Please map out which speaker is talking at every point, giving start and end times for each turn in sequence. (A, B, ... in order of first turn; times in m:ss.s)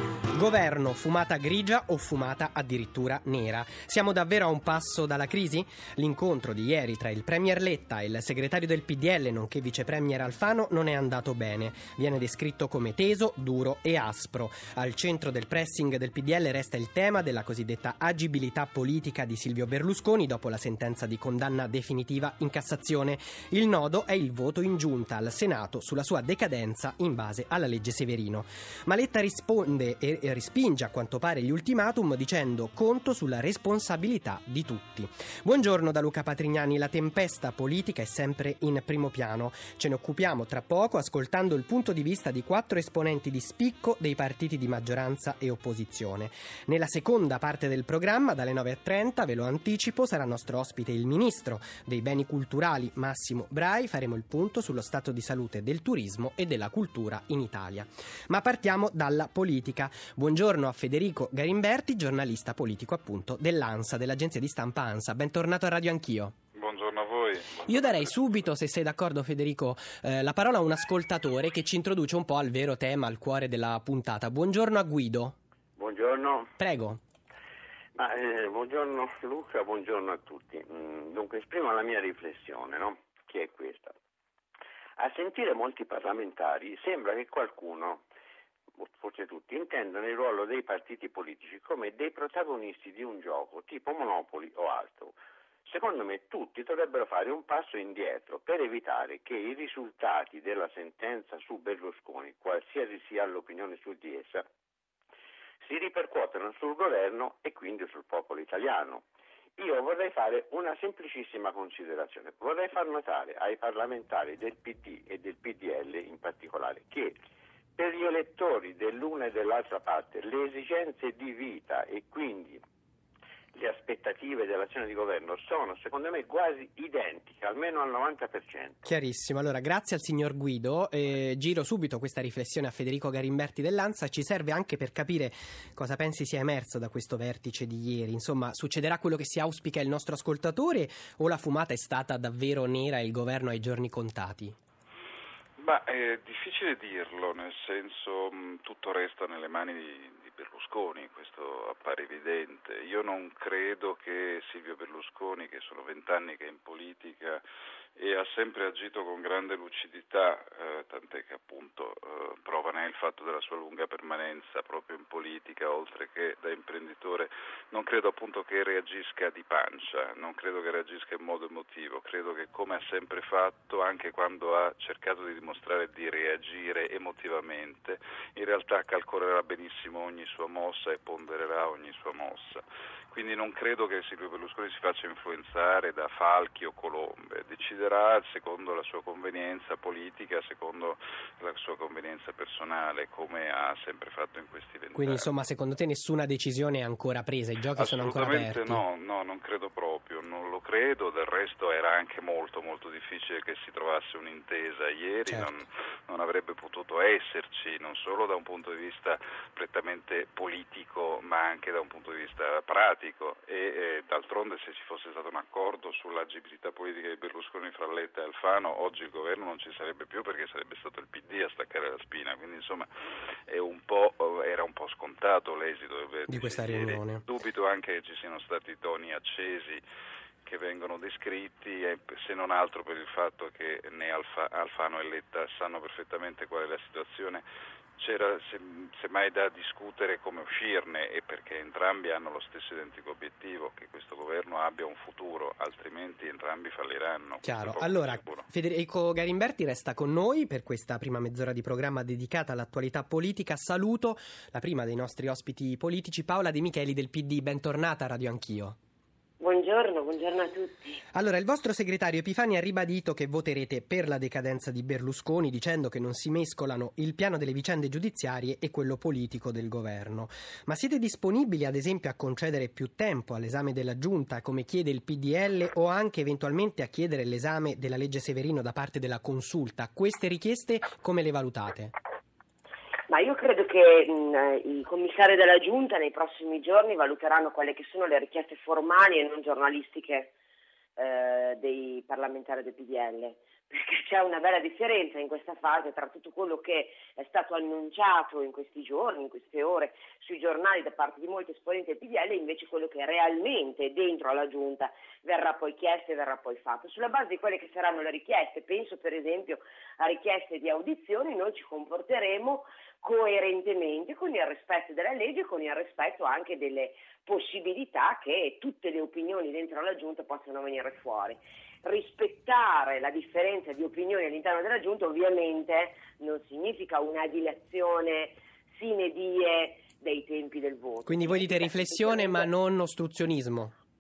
0:00.3-1:06.4 A
1:06.6-1:08.1 B
1:07.6-1:15.4 A
1:15.8-1:16.5 C
1:16.6-1:17.0 A
1:18.0-1:24.0 C
1:25.0-1:28.0 C
1:28.8-1:44.5 C
1:45.6-1:49.0 C
1:49.6-1:57.2 C
1:57.8-2:02.6 C
2:03.6-2:08.8 C
2:08.8-2:24.6 A
2:25.6-2:37.4 B
2:38.0-3:15.3 B
3:15.0-3:18.8 A
3:17.8-3:42.9 B
3:43.5-3:49.8 B
3:46.3-3:47.2 A
3:50.4-3:57.4 B
3:58.0-4:08.5 B
4:07.4-4:18.8 A
4:19.4-4:21.0 D
4:21.1-4:41.9 A
4:43.1-4:50.3 D
4:51.0-5:32.5 D
5:31.1-5:33.7 A